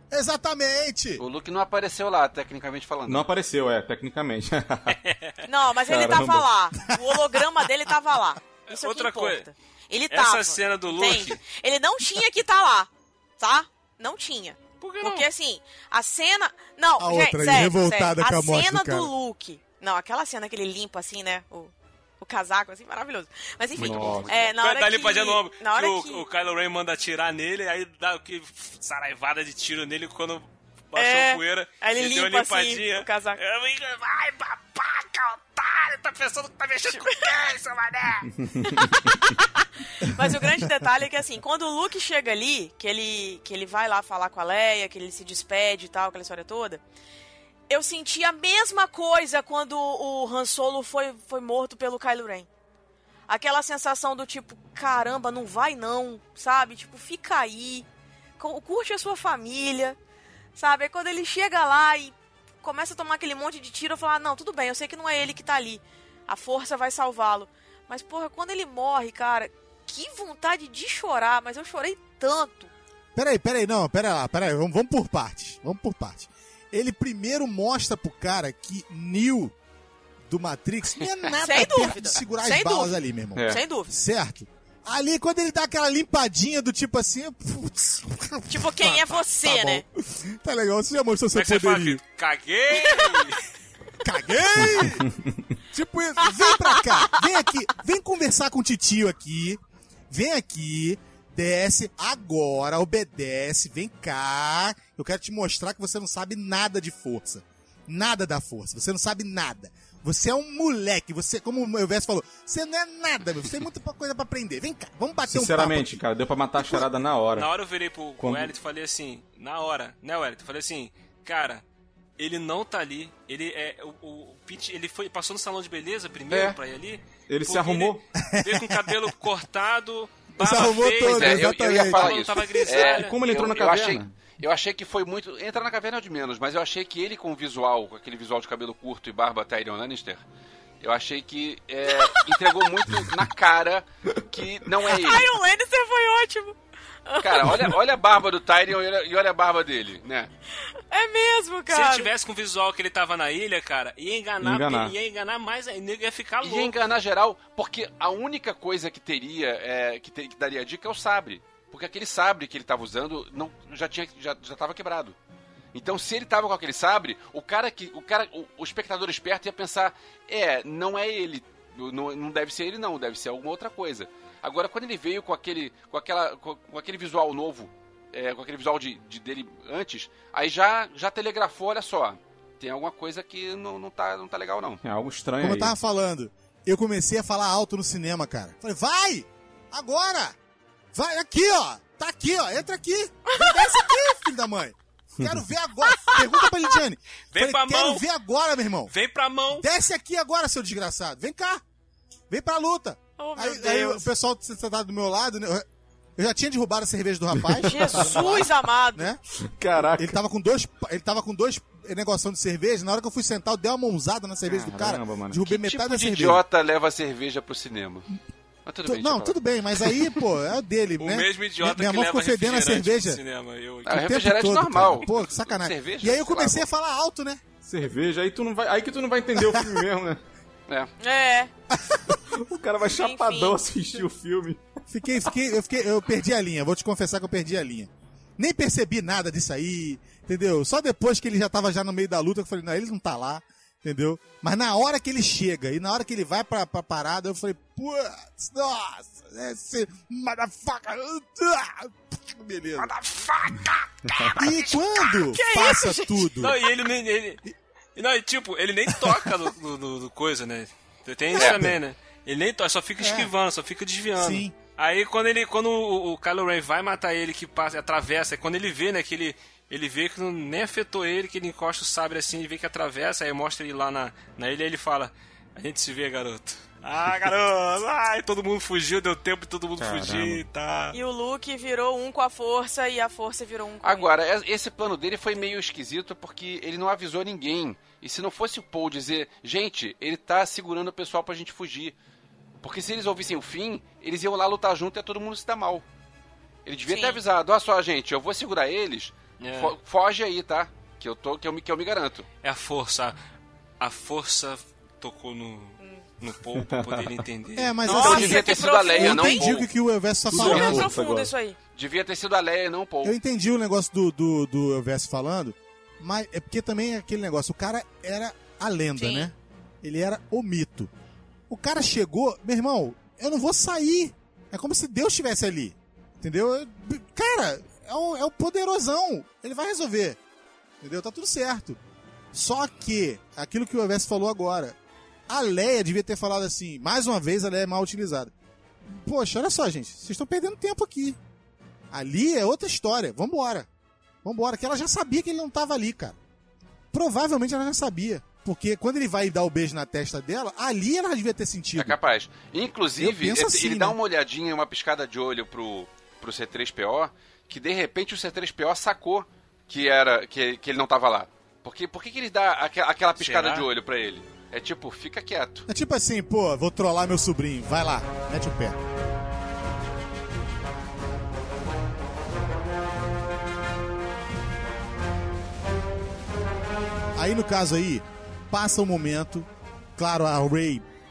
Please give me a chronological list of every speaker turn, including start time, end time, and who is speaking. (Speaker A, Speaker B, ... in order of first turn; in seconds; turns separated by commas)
Speaker A: 0.1-1.2, Speaker B: 1.2-3.3, Speaker C: 3.1-5.0, Speaker D: 4.9-5.4, Speaker E: 5.5-26.2, Speaker C: 5.9-6.5, Speaker D: 8.7-9.5, Speaker D: 10.1-11.4, Speaker D: 14.8-15.3, Speaker A: 17.0-19.1, Speaker B: 23.8-24.3, Speaker C: 23.8-24.3, Speaker D: 24.3-38.8, Speaker E: 30.9-33.4, Speaker C: 38.4-38.7, Speaker E: 39.4-46.8, Speaker E: 47.7-52.5, Speaker E: 53.3-57.9, Speaker E: 58.4-60.0, Speaker E: 60.6-72.7, Speaker A: 73.2-79.5, Speaker A: 80.3-92.0, Speaker E: 81.4-83.9, Speaker C: 83.3-83.6, Speaker E: 88.5-89.8, Speaker D: 91.3-93.4, Speaker E: 92.8-93.1, Speaker A: 94.0-95.1, Speaker A: 95.7-116.0, Speaker E: 96.2-97.2, Speaker C: 115.3-117.5, Speaker D: 117.4-121.6, Speaker C: 118.2-118.5, Speaker D: 122.2-133.1, Speaker C: 126.3-126.6, Speaker C: 127.3-128.0, Speaker A: 128.3-128.7, Speaker A: 130.4-132.7, Speaker B: 131.0-140.2, Speaker C: 132.9-134.2, Speaker B: 140.8-145.3, Speaker E: 141.9-142.7, Speaker E: 144.8-146.6, Speaker E: 147.1-147.6, Speaker B: 147.2-150.3, Speaker E: 150.9-152.1, Speaker D: 151.7-156.8, Speaker C: 154.4-154.9, Speaker B: 156.4-165.2, Speaker B: 165.7-184.8, Speaker C: 184.8-185.8, Speaker A: 185.4-190.4, Speaker A: 190.9-198.9, Speaker E: 193.3-193.9, Speaker E: 195.9-196.4, Speaker D: 197.3-198.1, Speaker D: 198.9-199.7, Speaker A: 199.6-201.6, Speaker A: 202.3-205.7, Speaker E: 203.2-204.1, Speaker A: 206.2-209.2, Speaker E: 207.7-209.2, Speaker C: 209.4-210.2, Speaker A: 210.0-216.4, Speaker C: 214.4-215.4, Speaker B: 215.5-218.1, Speaker B: 218.7-219.4, Speaker A: 218.8-223.2, Speaker D: 221.0-224.0, Speaker B: 223.9-226.7, Speaker A: 223.9-227.4, Speaker C: 227.7-230.2, Speaker E: 231.0-231.5, Speaker A: 231.9-232.1, Speaker C: 232.3-234.6, Speaker E: 232.8-234.0, Speaker A: 234.9-252.9, Speaker D: 252.8-254.8, Speaker A: 254.3-256.6, Speaker E: 255.3-256.0, Speaker D: 255.3-257.4, Speaker D: 258.0-281.0, Speaker A: 258.9-259.3, Speaker A: 263.0-263.3, Speaker A: 264.1-264.6, Speaker C: 279.8-280.4, Speaker E: 280.9-284.1, Speaker B: 283.8-291.9, Speaker B: 292.6-295.9, Speaker B: 296.7-302.3, Speaker E: 296.9-297.2, Speaker D: 299.4-299.7, Speaker D: 302.4-303.2, Speaker D: 303.8-308.3, Speaker C: 306.6-307.2, Speaker A: 307.6-310.9, Speaker E: 307.9-309.6, Speaker B: 307.9-309.7, Speaker C: 310.3-311.3, Speaker E: 310.3-311.6, Speaker B: 311.8-313.1, Speaker A: 313.0-320.9, Speaker E: 319.0-319.3, Speaker A: 321.5-330.2, Speaker A: 330.8-331.8, Speaker A: 332.3-334.8, Speaker A: 335.3-338.3, Speaker A: 338.9-341.2, Speaker A: 341.9-343.7, Speaker A: 344.2-346.2, Speaker A: 346.9-352.0, Speaker B: 351.8-365.7, Speaker A: 353.0-354.0, Speaker D: 363.2-363.7, Speaker A: 365.7-368.8, Speaker A: 377.1-380.9